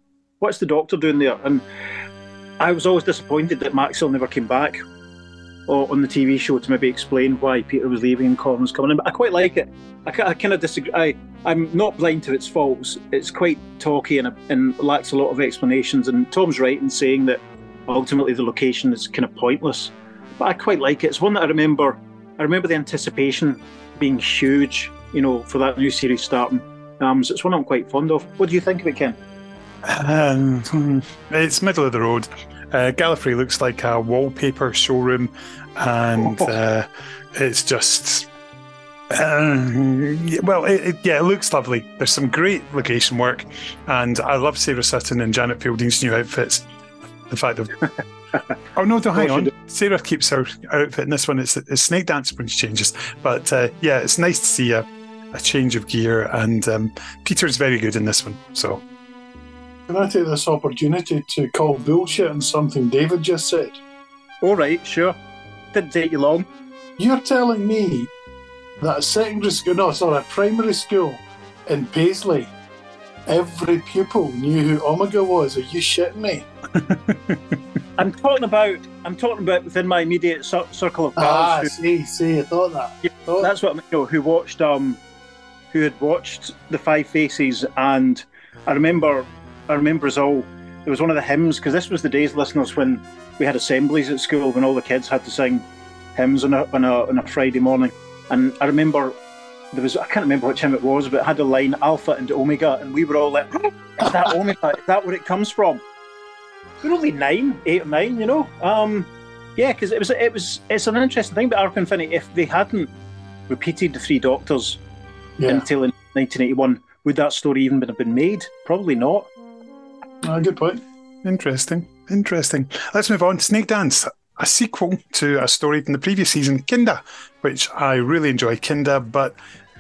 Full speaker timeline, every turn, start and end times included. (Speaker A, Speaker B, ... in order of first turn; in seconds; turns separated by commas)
Speaker A: 0.4-1.6, Speaker A: 2.6-4.8, Speaker A: 5.7-29.2, Speaker B: 29.8-38.3, Speaker B: 39.1-46.7, Speaker B: 47.3-47.9, Speaker B: 48.7-58.8, Speaker A: 49.2-49.5, Speaker C: 59.9-63.8, Speaker A: 64.4-65.2, Speaker A: 65.7-66.5, Speaker C: 67.0-68.1, Speaker C: 68.8-72.5, Speaker C: 73.3-76.5, Speaker B: 76.8-77.6, Speaker A: 78.0-81.7, Speaker C: 81.2-83.5, Speaker A: 83.0-85.0, Speaker A: 85.7-99.2, Speaker A: 99.7-105.8, Speaker A: 106.8-112.9, Speaker A: 113.5-114.8, Speaker C: 115.4-115.7, Speaker A: 115.5-119.3, Speaker C: 120.2-120.8, Speaker B: 121.2-129.3